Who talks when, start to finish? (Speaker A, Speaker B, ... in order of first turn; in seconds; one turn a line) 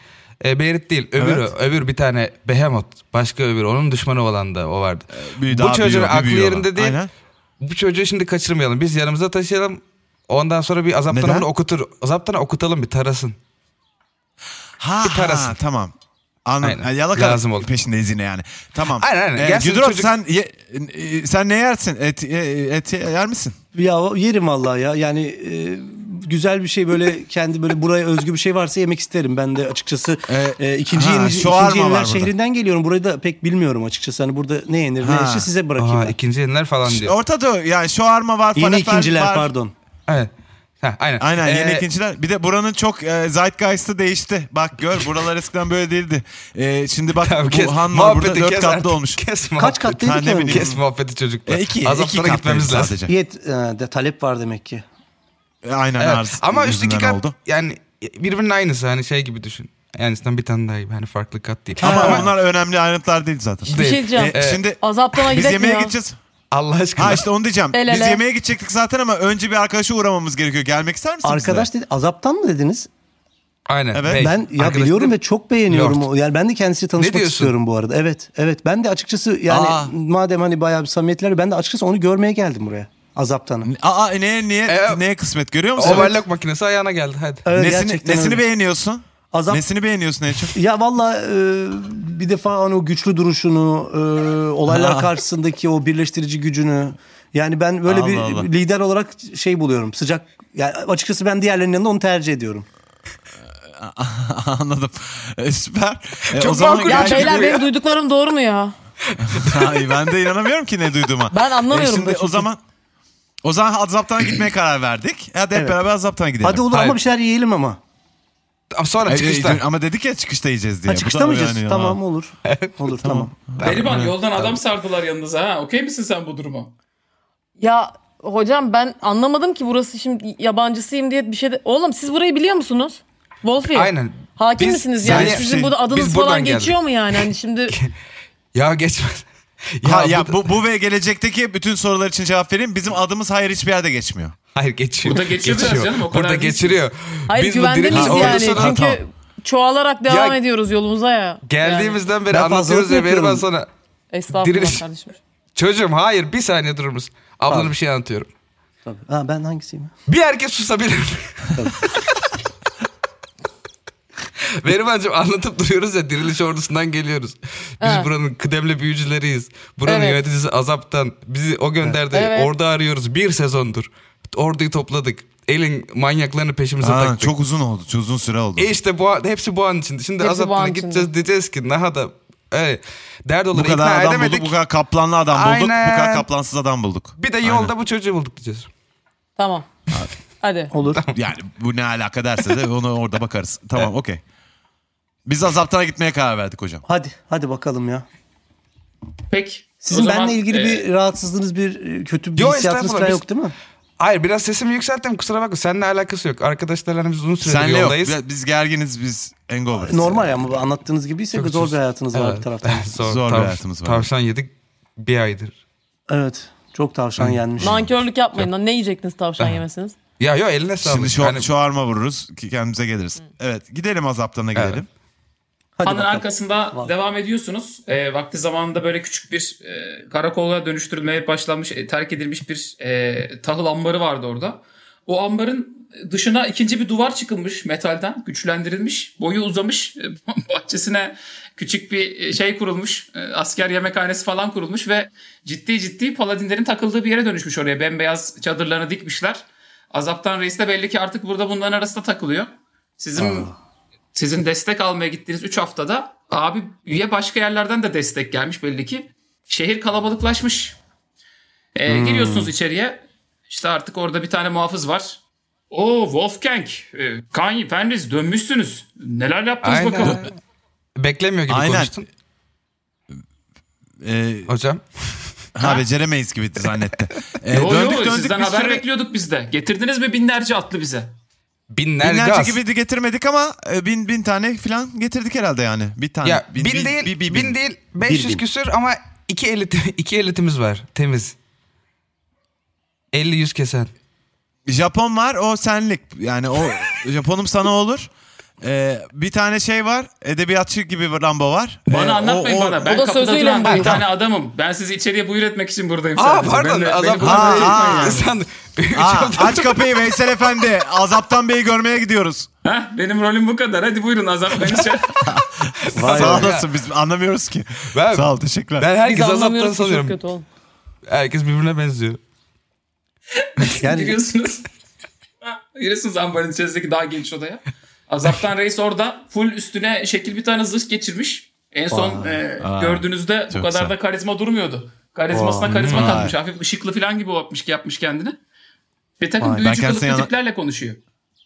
Speaker A: 0.4-7.0
Speaker B: 1.2-1.5
Speaker B: 5.1-7.1
Speaker A: 7.6-13.3
Speaker B: 11.1-11.5
Speaker B: 14.8-15.9
Speaker A: 15.0-15.6
Speaker B: 16.4-23.6
Speaker A: 16.6-17.7
Speaker A: 19.0-20.1
Speaker C: 23.7-36.2
Speaker B: 30.3-32.3
Speaker B: 35.0-35.5
Speaker A: 35.8-37.1
Speaker B: 36.9-39.5
Speaker C: 38.5-39.7
Speaker A: 40.8-41.8
Speaker B: 41.2-49.2
Speaker A: 47.2-53.0
Speaker C: 49.6-50.8
Speaker B: 50.0-50.8
Speaker B: 51.5-53.1
Speaker C: 53.0-54.8
Speaker B: 55.6-57.3
Speaker A: 56.0-62.2
Speaker C: 61.8-62.3
Speaker B: 61.8-66.2
Speaker A: 63.7-64.6
Speaker D: 63.7-65.9
Speaker A: 66.5-67.2
Speaker B: 67.0-71.7
Speaker D: 67.7-68.2
Speaker C: 71.2-72.9
Speaker A: 73.7-75.1
Speaker B: 73.9-74.3
Speaker C: 74.1-83.7
Speaker A: 75.7-76.0
Speaker A: 77.0-77.5
Speaker B: 79.5-79.9
Speaker B: 83.6-86.1
Speaker A: 84.7-85.0
Speaker A: 85.8-87.5
Speaker C: 85.8-86.2
Speaker C: 87.4-88.4
Speaker B: 87.5-90.5
Speaker C: 89.3-89.6
Speaker C: 90.5-102.7
Speaker B: 94.7-95.1
Speaker B: 97.8-98.5
Speaker B: 103.8-107.5
Speaker A: 106.3-107.6
Speaker D: 106.8-108.7
Speaker A: 109.1-109.6
Speaker B: 109.3-112.6
Speaker D: 111.3-112.5
Speaker B: 113.4-116.7
Speaker C: 115.5-115.8
Speaker C: 116.4-117.8
Speaker A: 116.7-117.0
Speaker A: 118.7-119.6
Speaker B: 119.0-122.0
Speaker C: 120.9-123.5
Speaker A: 122.4-122.7
Speaker B: 123.0-124.5
Speaker A: 123.6-123.9
Speaker E: 123.6-126.7
Speaker D: 127.6-137.7
Speaker A: 133.7-137.9
Speaker B: 135.0-135.8
Speaker A: 138.5-139.2
Speaker A: 139.8-140.4
Speaker B: 139.8-144.3
Speaker A: 144.5-148.8
Speaker E: 145.0-146.8
Speaker D: 147.3-152.0
Speaker B: 147.9-149.0
Speaker A: 150.1-150.4
Speaker A: 151.5-153.7
Speaker C: 152.3-153.5
Speaker D: 154.1-155.2
Speaker A: 154.4-154.8
Speaker A: 155.5-158.3
Speaker C: 157.4-157.8
Speaker C: 158.8-159.9
Speaker A: 160.1-161.9
Speaker A: 164.6-177.3
Speaker D: 167.8-168.1
Speaker D: 169.8-170.2
Speaker D: 172.1-172.5
Speaker B: 176.8-178.7
Speaker A: 178.6-184.5
Speaker D: 180.2-181.1
Speaker B: 183.5-187.7
Speaker A: 185.3-186.2
Speaker A: 187.2-188.7
Speaker D: 189.4-189.7
Speaker D: 190.4-190.7
Speaker C: 190.7-191.0
Speaker B: 191.1-194.2
Speaker B: 195.2-196.8
Speaker C: 196.8-198.0
Speaker E: 199.3-200.8
Speaker C: 199.8-203.5
Speaker A: 202.3-203.2
Speaker A: 204.0-208.1
Speaker B: 207.4-210.2
Speaker C: 209.7-213.0
Speaker A: 211.3-215.6
Speaker B: 213.0-214.1
Speaker C: 216.1-217.9
Speaker D: 217.6-220.0
Speaker A: 220.2-221.5
Speaker B: 220.8-224.9
Speaker A: 224.5-224.8
Speaker C: 225.8-226.9
Speaker E: 225.8-253.5
Speaker C: 253.2-253.5
Speaker E: 254.1-260.8
Speaker E: 261.8-265.2
Speaker C: 261.9-262.5
Speaker E: 265.7-270.3
Speaker A: 269.6-270.4
Speaker A: 270.9-272.1
Speaker B: 271.5-271.9
Speaker B: 274.0-274.5
Speaker A: 274.5-275.2
Speaker B: 275.5-278.8
Speaker E: 277.5-281.1
Speaker A: 281.7-282.6
Speaker B: 282.0-287.6
Speaker A: 286.2-291.3
Speaker C: 288.0-288.4
Speaker A: 293.1-293.9
Speaker B: 294.7-298.1
Speaker B: 298.6-302.9
Speaker E: 301.9-308.3
Speaker D: 302.8-303.9
Speaker A: 303.6-304.0
Speaker A: 306.1-310.1
Speaker B: 307.2-308.2
Speaker B: 308.9-312.5
Speaker E: 312.6-315.2
Speaker B: 315.2-318.9
Speaker A: 315.9-316.6
Speaker C: 315.9-316.6
Speaker A: 317.9-318.3
Speaker A: 318.8-320.1
Speaker D: 319.0-320.4
Speaker A: 321.1-322.2
Speaker E: 323.4-324.7
Speaker C: 323.8-324.2
Speaker E: 325.4-338.4
Speaker C: 331.9-332.4
Speaker B: 332.6-333.9
Speaker C: 335.3-336.3
Speaker A: 335.9-336.2
Speaker B: 335.9-336.3
Speaker E: 339.2-341.0
Speaker B: 339.6-340.3